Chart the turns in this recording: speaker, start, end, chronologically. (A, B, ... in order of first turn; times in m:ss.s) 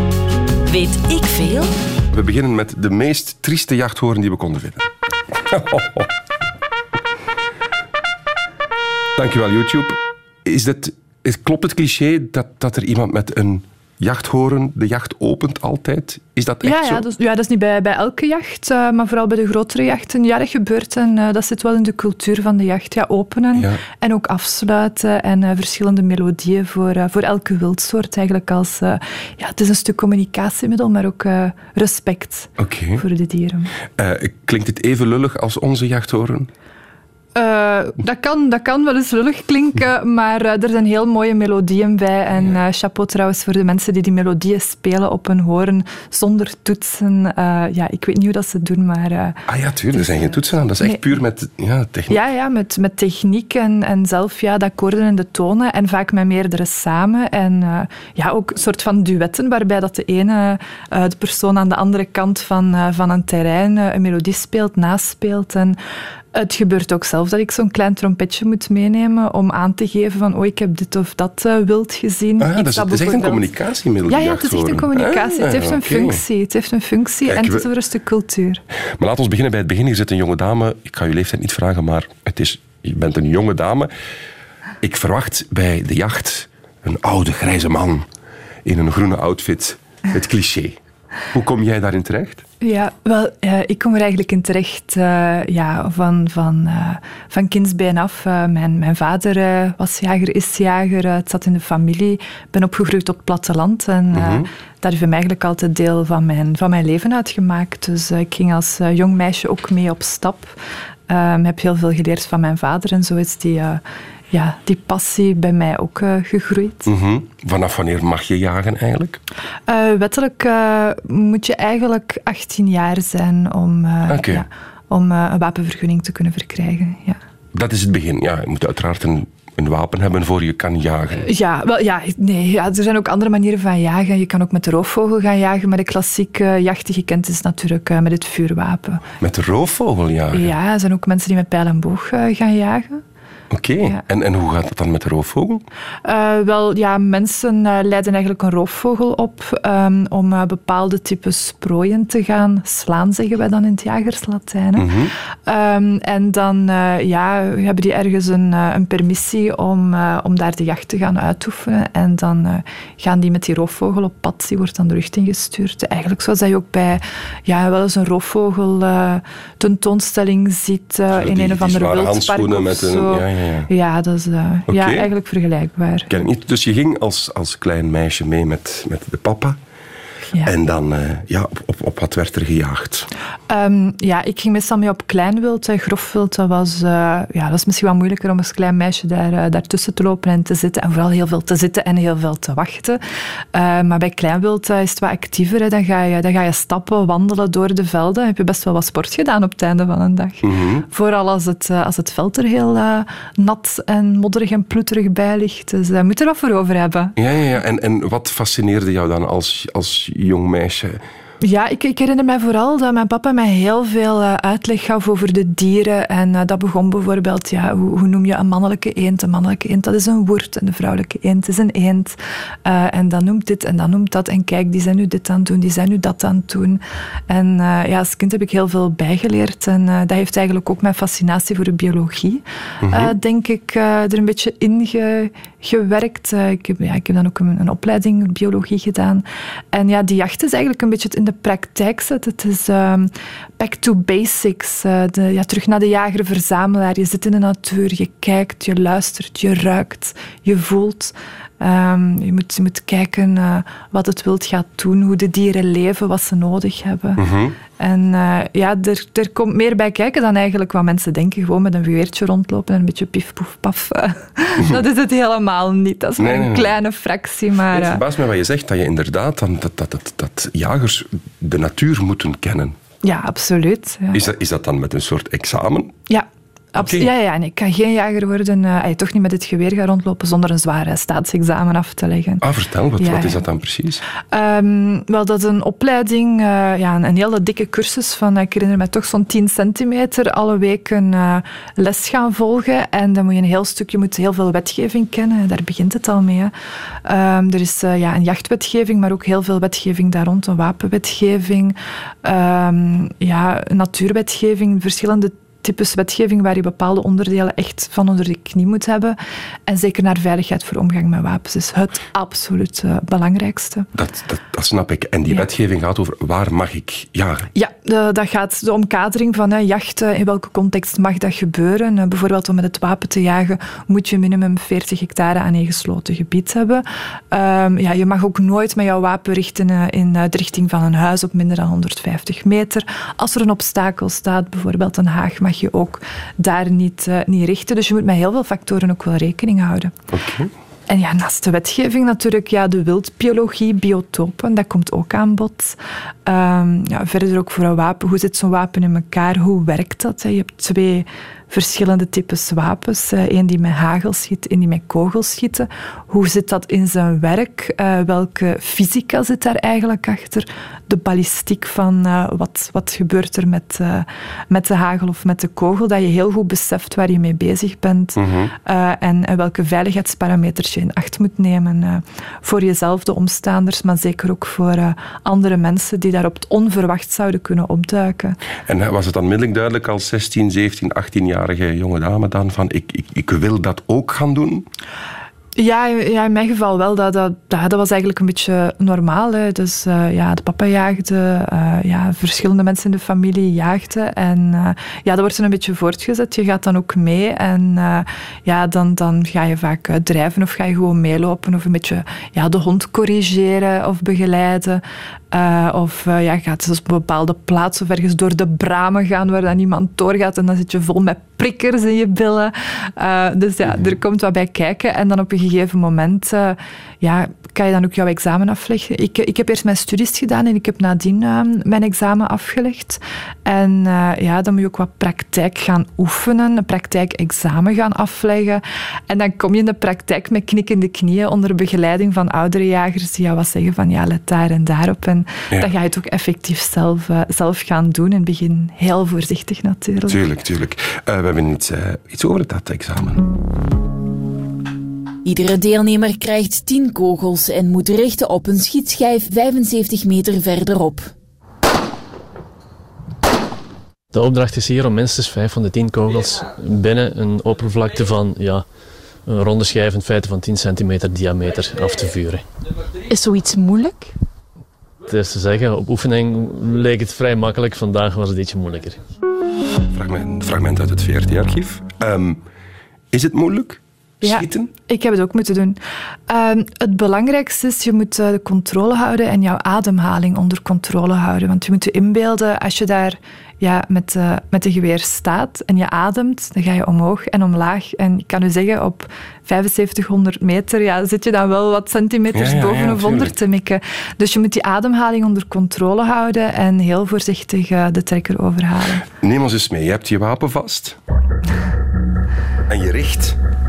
0:00.7-0:01.7 A
0:02.1-0:06.1 B
0:09.2-0:17.0 B
0:16.6-0:33.7 C
0:23.6-0:23.8 B
0:32.6-0:33.0 B
0:34.0-0:36.5 B
0:37.4-0:50.3 C
0:49.5-0:52.2 B
0:52.1-1:05.8 C
1:06.3-1:13.5 C
1:12.4-1:16.2 B
1:14.1-1:18.6 C
1:17.3-1:17.7 B
1:19.0-1:23.9 B
1:24.8-1:28.1 B
1:28.6-1:30.8 B
1:31.3-1:32.4 B
1:32.6-1:50.6 C
1:44.1-1:44.5 B
1:51.1-1:56.9 C
1:56.9-1:59.2 B
1:59.7-2:07.2 C
2:04.1-2:04.4 B
2:07.5-2:11.3 B
2:11.2-2:19.1 C
2:19.2-2:20.5 B
2:20.3-2:23.0 C
2:23.5-2:25.6 B
2:26.0-2:56.2 C
2:34.8-2:35.1 B
2:51.1-2:53.7 B
2:54.7-2:55.1 B
2:56.1-2:59.6 B
3:00.4-3:03.1 B
3:03.5-3:13.0 C
3:13.5-3:27.2 C
3:20.4-3:20.9 B
3:27.2-3:31.0 B
3:31.4-4:28.0 C
3:52.8-3:53.1 B
4:17.2-4:17.6 B
4:26.2-4:26.7 B
4:27.7-4:32.8 B
4:33.0-4:34.2 C
4:34.1-4:36.0 B
4:36.1-4:42.4 C
4:36.8-4:37.1 B
4:42.4-4:44.0 B
4:43.0-4:43.4 C
4:44.3-4:56.5 C
4:57.0-5:13.9 C
5:13.9-5:17.5 B
5:17.5-5:40.0 C
5:40.1-5:40.5 B
5:40.9-6:18.4 C
6:08.2-6:08.5 B
6:18.7-6:24.7 B
6:25.6-7:20.2 C
7:20.1-7:23.3 B
7:25.2-7:31.1 A
7:34.1-7:38.7 D
7:39.2-7:42.4 D
7:43.1-7:44.1 A
7:45.1-7:49.0 D
7:49.9-7:52.4 B
7:53.1-7:54.7 B
7:54.2-8:19.1 C
8:12.3-8:13.4 B
8:19.2-8:21.0 B
8:22.7-8:23.4 B